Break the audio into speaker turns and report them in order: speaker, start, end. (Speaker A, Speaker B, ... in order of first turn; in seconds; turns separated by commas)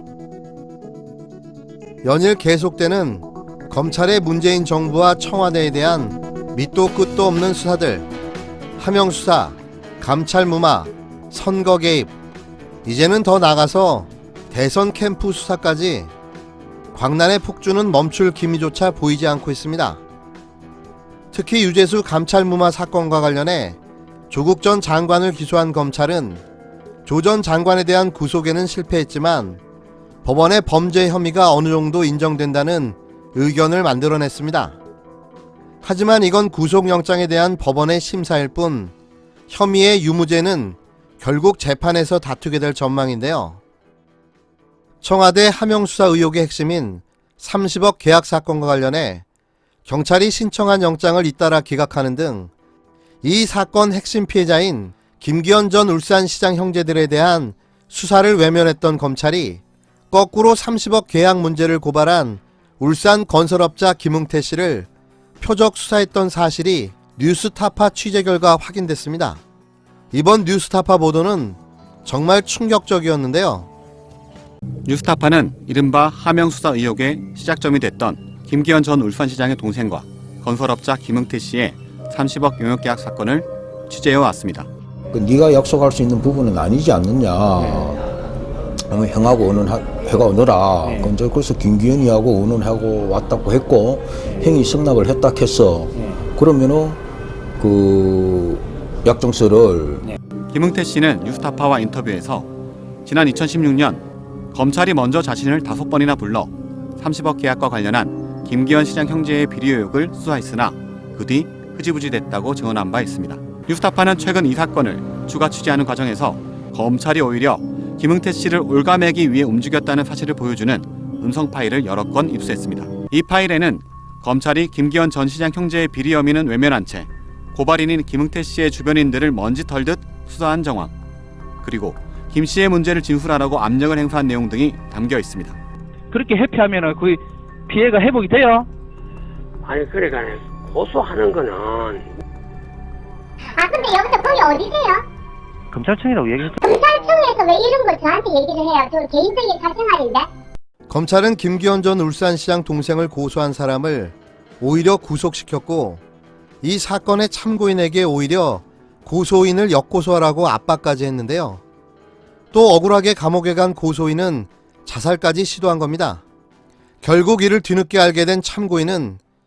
Speaker A: 2.0-8.1, Speaker A: 8.8-12.1, Speaker A: 12.8-16.1, Speaker A: 16.9-20.0, Speaker A: 21.3-23.8, Speaker A: 24.3-26.4, Speaker A: 27.1-29.6, Speaker A: 30.2-34.8, Speaker A: 35.8-38.9, Speaker A: 39.5-43.6, Speaker A: 45.0-49.2, Speaker A: 49.9-52.5, Speaker A: 53.2-64.9, Speaker A: 65.4-69.4, Speaker A: 70.1-73.7, Speaker B: 74.9-84.7, Speaker C: 85.1-88.0, Speaker C: 88.9-97.0, Speaker C: 97.6-100.1, Speaker B: 100.5-102.5, Speaker B: 103.0-104.0, Speaker B: 104.5-130.9, Speaker B: 131.6-135.6, Speaker D: 136.1-138.7, Speaker E: 139.6-142.1, Speaker F: 143.6-145.0, Speaker D: 145.7-146.6, Speaker F: 146.6-150.3, Speaker A: 150.9-156.0, Speaker A: 156.6-161.6, Speaker A: 162.5-166.2, Speaker A: 167.0-169.2